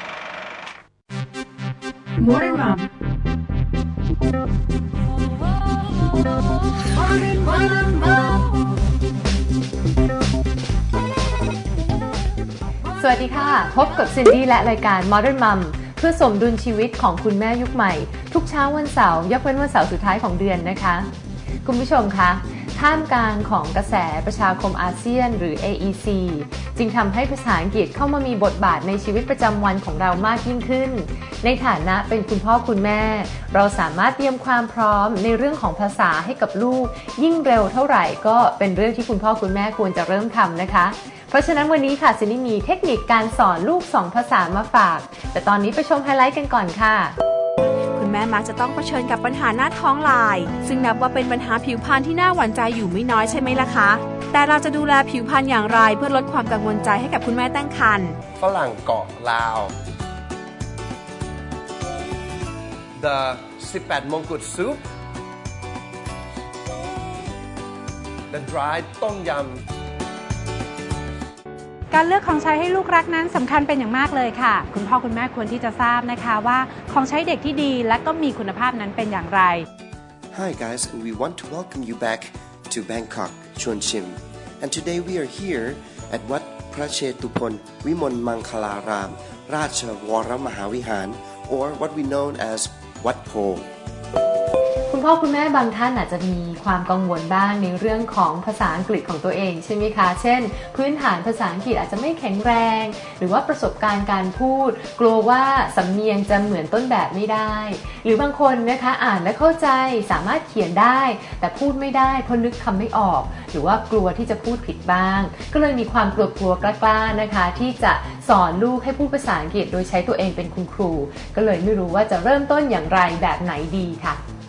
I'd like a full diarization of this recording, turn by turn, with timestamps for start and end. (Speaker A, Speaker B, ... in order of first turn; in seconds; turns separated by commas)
Speaker A: 13.0-21.1, Speaker A: 21.6-47.2, Speaker B: 48.0-58.2, Speaker C: 58.4-59.7, Speaker C: 63.0-64.8, Speaker C: 68.3-69.6, Speaker D: 71.9-79.7, Speaker E: 80.3-93.7, Speaker A: 94.9-124.2